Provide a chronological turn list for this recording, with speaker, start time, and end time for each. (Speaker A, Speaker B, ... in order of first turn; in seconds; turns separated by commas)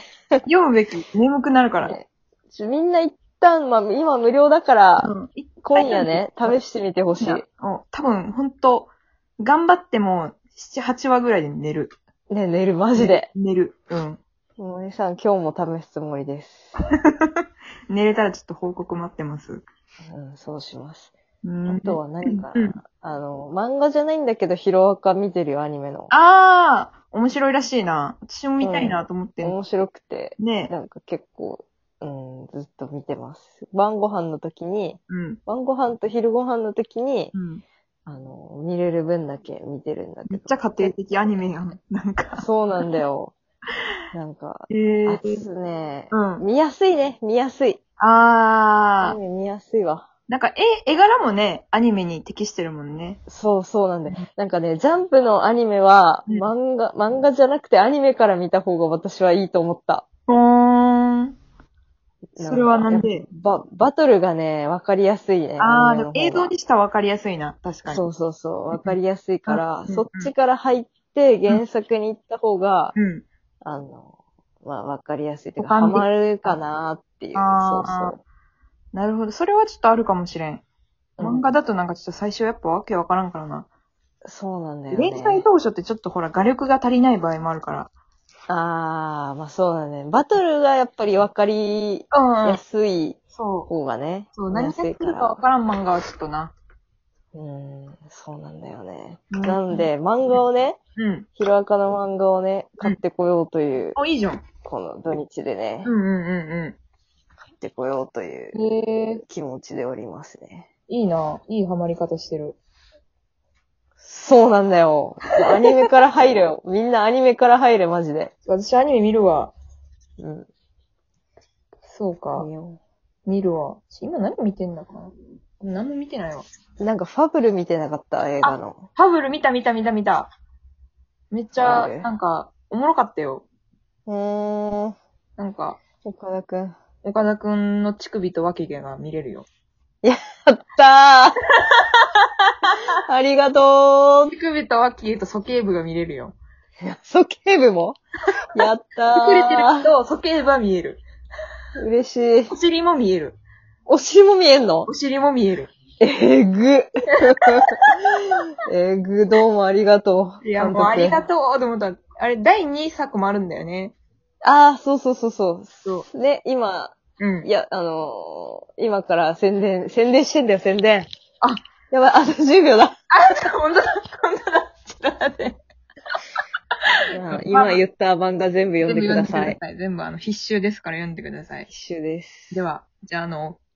Speaker A: 0.4-2.0, Speaker B: 1.8-7.4, Speaker A: 5.0-6.5, Speaker A: 7.2-11.9, Speaker B: 12.3-13.3, Speaker A: 12.9-14.2, Speaker B: 14.6-16.7, Speaker A: 17.1-19.6, Speaker B: 20.0-21.1, Speaker A: 21.4-22.8, Speaker B: 21.6-26.1, Speaker A: 26.1-29.6, Speaker B: 28.6-37.3, Speaker A: 30.4-30.7, Speaker A: 35.1-35.4, Speaker A: 37.3-37.6, Speaker B: 38.1-40.9, Speaker A: 40.3-43.0, Speaker B: 42.4-43.3, Speaker B: 44.1-47.8, Speaker A: 44.7-45.4, Speaker A: 46.1-46.4, Speaker A: 48.0-49.2, Speaker B: 49.0-50.1, Speaker A: 50.3-53.2, Speaker B: 53.3-60.0, Speaker A: 60.3-61.4, Speaker B: 62.3-66.5, Speaker A: 62.4-63.2, Speaker A: 65.6-68.1, Speaker B: 67.9-73.0, Speaker A: 68.7-70.3, Speaker A: 73.0-73.2, Speaker B: 73.6-78.2, Speaker A: 75.6-76.5, Speaker A: 77.3-78.2, Speaker A: 78.9-80.6, Speaker B: 81.2-81.5, Speaker A: 81.2-83.7, Speaker B: 84.2-85.4, Speaker A: 84.9-87.9, Speaker B: 88.5-95.4, Speaker A: 92.1-92.6, Speaker A: 93.3-93.7, Speaker A: 94.3-96.5, Speaker B: 97.3-100.8, Speaker A: 99.3-100.4, Speaker A: 101.0-101.3, Speaker B: 101.4-104.0, Speaker A: 104.0-104.4, Speaker B: 104.6-105.9, Speaker A: 105.8-106.8, Speaker B: 107.6-108.6, Speaker A: 108.5-109.2, Speaker B: 109.3-110.7, Speaker A: 110.9-112.6, Speaker B: 114.0-118.3, Speaker A: 118.4-119.5, Speaker B: 120.2-120.5, Speaker A: 121.9-122.5, Speaker B: 122.3-122.8, Speaker A: 123.2-126.5, Speaker B: 126.8-128.9, Speaker A: 128.4-130.3, Speaker A: 131.3-133.4, Speaker B: 131.6-132.1, Speaker B: 134.1-134.9, Speaker A: 135.4-135.8, Speaker B: 136.0-136.8, Speaker A: 137.0-139.5, Speaker B: 140.0-141.4, Speaker A: 141.6-142.8, Speaker B: 143.1-144.3, Speaker A: 144.3-146.3, Speaker B: 146.8-148.0, Speaker B: 148.5-149.9, Speaker A: 149.1-151.0, Speaker B: 151.8-152.5, Speaker A: 152.5-153.4, Speaker B: 153.9-154.9, Speaker A: 154.8-155.7, Speaker B: 156.0-157.8, Speaker A: 157.7-158.0, Speaker B: 158.6-161.2, Speaker A: 160.4-163.9, Speaker B: 164.4-171.1, Speaker A: 167.2-167.5, Speaker B: 171.9-172.9, Speaker A: 173.1-175.6, Speaker B: 177.1-179.6, Speaker A: 177.3-177.8, Speaker A: 178.8-181.7, Speaker B: 181.7-182.6, Speaker A: 182.5-183.6